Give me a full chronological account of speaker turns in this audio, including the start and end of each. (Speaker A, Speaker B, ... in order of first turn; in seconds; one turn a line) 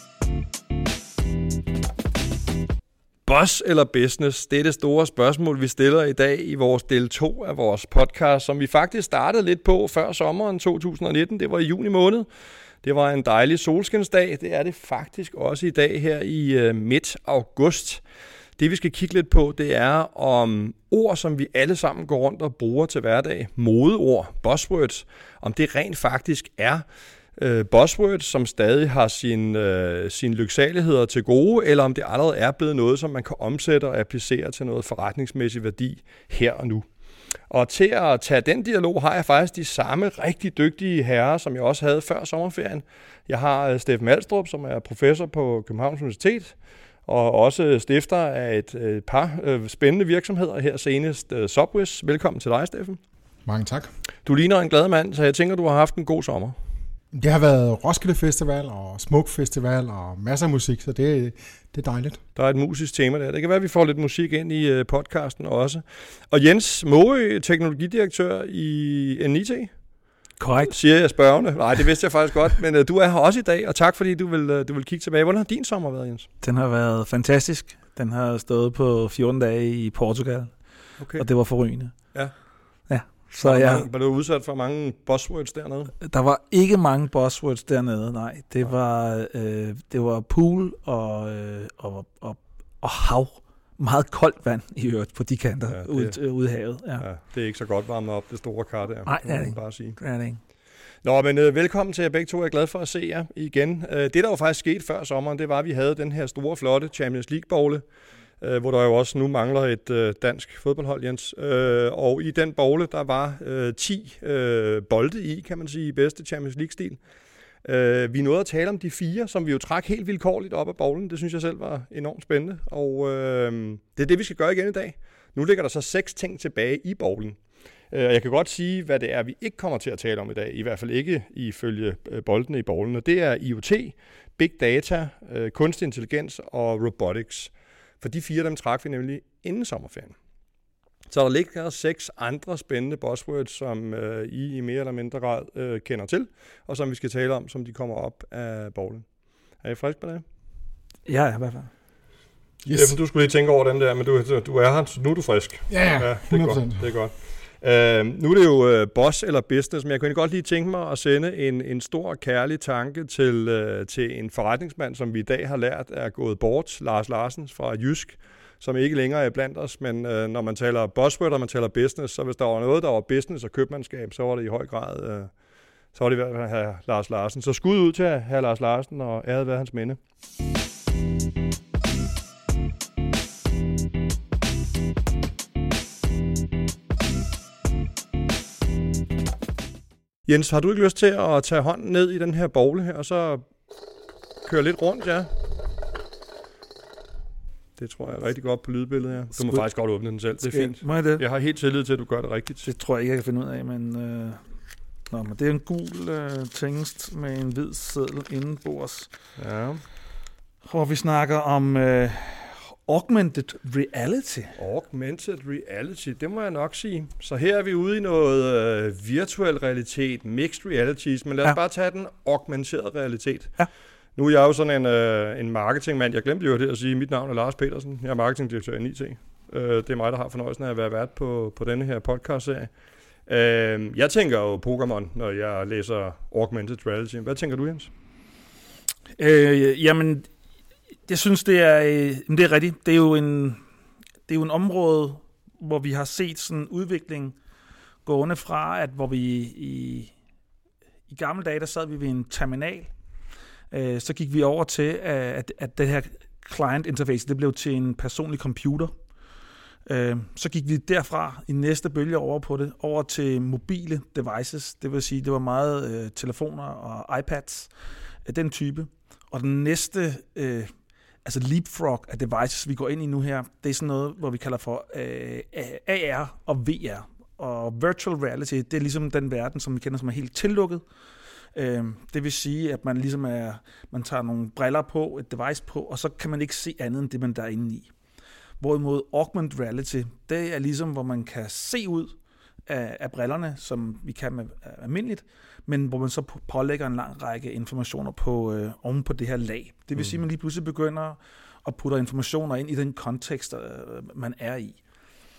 Speaker A: 3.2-12.3
Speaker A: 12.8-18.0
Speaker A: 18.6-26.9
Speaker A: 27.4-36.9
Speaker A: 37.5-53.0
Speaker B: 53.5-53.9
Speaker A: 54.2-56.5
Speaker B: 57.1-62.2
Speaker A: 62.4-69.7
Speaker C: 70.4-70.7
Speaker A: 70.6-76.3
Speaker C: 76.4-80.6
Speaker A: 81.0-81.3
Speaker C: 81.1-82.0
Speaker C: 82.9-83.8
Speaker A: 83.4-85.9
Speaker C: 86.0-97.0
Speaker A: 95.7-96.2
Speaker A: 97.0-100.0
Speaker C: 99.0-100.4
Speaker A: 101.0-107.8
Speaker A: 108.4-117.0
Speaker A: 117.6-127.4
Speaker A: 127.9-140.1
Speaker A: 141.1-149.0
Speaker A: 149.6-150.2
Speaker C: 151.1-151.7
Speaker B: 152.6-152.9
Speaker A: 152.7-175.3
Speaker B: 155.7-156.9
Speaker A: 175.9-180.0
Speaker A: 190.2-193.5
Speaker A: 194.4-195.3
Speaker A: 197.8-202.6
Speaker C: 199.3-199.7
Speaker C: 200.4-201.2
Speaker C: 202.6-204.4
Speaker C: 205.1-209.1
Speaker A: 209.4-209.8
Speaker C: 210.7-214.6
Speaker A: 214.6-223.6
Speaker A: 224.2-232.7
Speaker A: 233.2-237.9
Speaker C: 239.2-240.3
Speaker C: 241.1-243.6
Speaker C: 244.3-247.3
Speaker C: 248.1-250.1
Speaker C: 251.1-252.9
Speaker C: 253.7-258.9
Speaker C: 259.9-267.7
Speaker C: 268.2-270.7
Speaker C: 271.2-280.8
Speaker C: 281.5-287.9
Speaker C: 288.6-292.1
Speaker C: 292.7-304.8